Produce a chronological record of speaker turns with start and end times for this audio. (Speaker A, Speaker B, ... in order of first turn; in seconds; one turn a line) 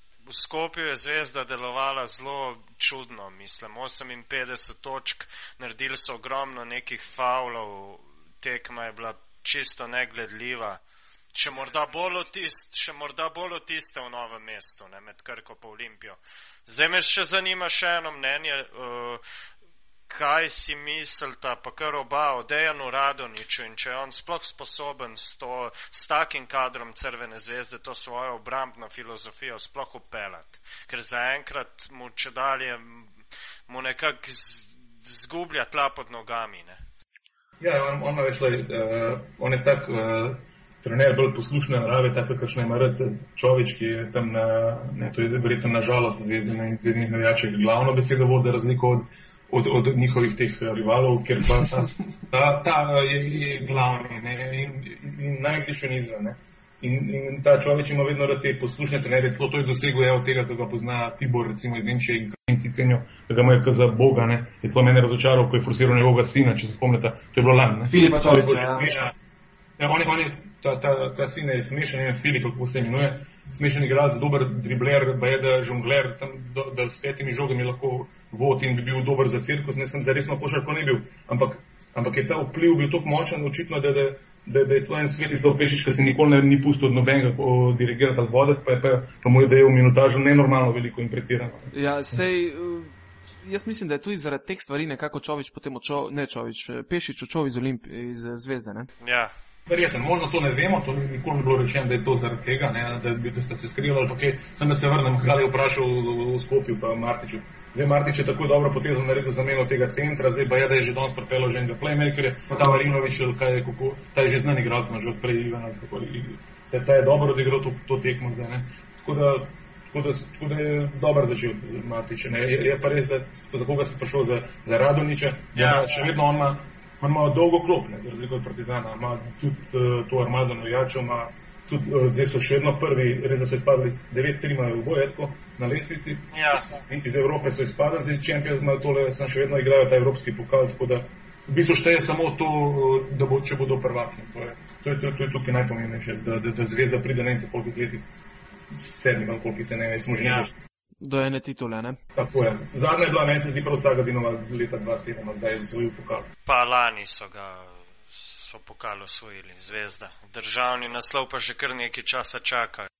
Speaker A: 0.2-10.8
Speaker A: 11.3-19.2
Speaker A: 20.1-33.1
Speaker A: 33.7-36.8
Speaker B: 37.6-69.1
Speaker C: 67.9-68.9
Speaker B: 69.8-91.7
Speaker C: 91.7-98.9
Speaker A: 99.0-99.3
Speaker B: 99.7-148.1
Speaker A: 125.5-125.9
Speaker A: 136.3-136.7
Speaker B: 148.7-150.6
Speaker C: 151.0-152.0
Speaker B: 152.2-156.3
Speaker A: 156.4-162.9